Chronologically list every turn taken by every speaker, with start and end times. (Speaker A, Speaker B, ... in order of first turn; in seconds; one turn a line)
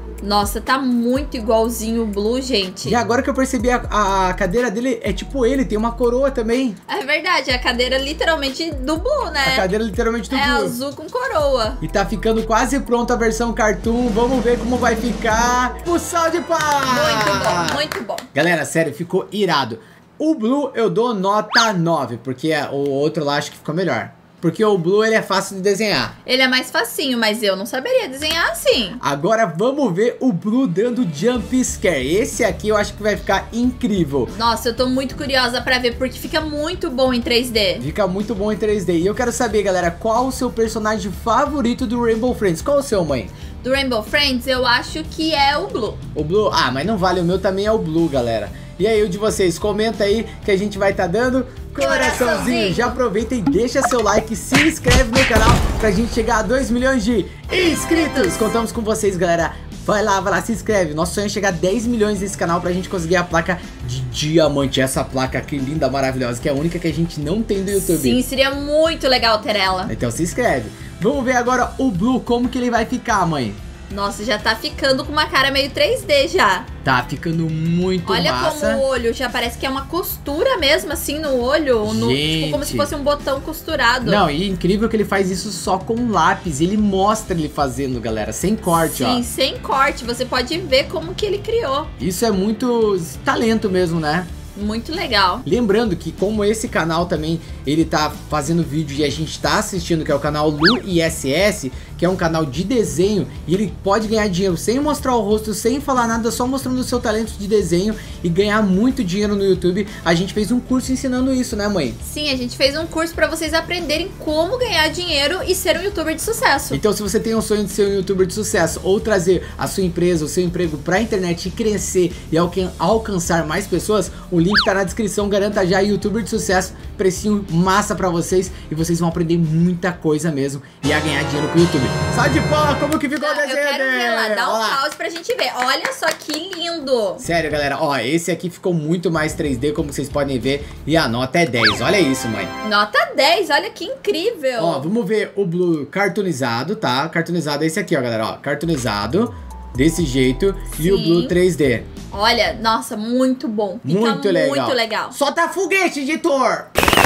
Speaker A: 0.2-3.0
Speaker B: 2.8-6.8
Speaker A: 6.9-9.7
Speaker B: 9.4-10.8
Speaker A: 10.3-11.8
Speaker B: 11.8-26.1
Speaker A: 16.9-18.3
Speaker A: 26.3-29.0
Speaker B: 29.0-34.3
Speaker A: 34.3-37.9
Speaker B: 37.8-43.3
Speaker A: 43.6-46.0
Speaker B: 46.1-68.2
Speaker A: 51.8-53.0
Speaker A: 57.5-58.6
Speaker A: 67.7-69.9
Speaker B: 69.9-73.6
Speaker A: 73.9-76.7
Speaker B: 76.8-78.8
Speaker A: 78.1-84.2
Speaker B: 81.8-82.9
Speaker B: 84.0-89.2
Speaker A: 88.7-91.9
Speaker B: 92.0-94.3
Speaker A: 94.5-95.5
Speaker B: 95.4-112.0
Speaker A: 112.0-116.8
Speaker B: 116.7-134.8
Speaker A: 133.2-137.2
Speaker B: 137.2-142.5
Speaker A: 142.6-144.9
Speaker B: 144.6-151.9
Speaker A: 150.7-151.3
Speaker A: 152.1-155.2
Speaker B: 153.8-156.7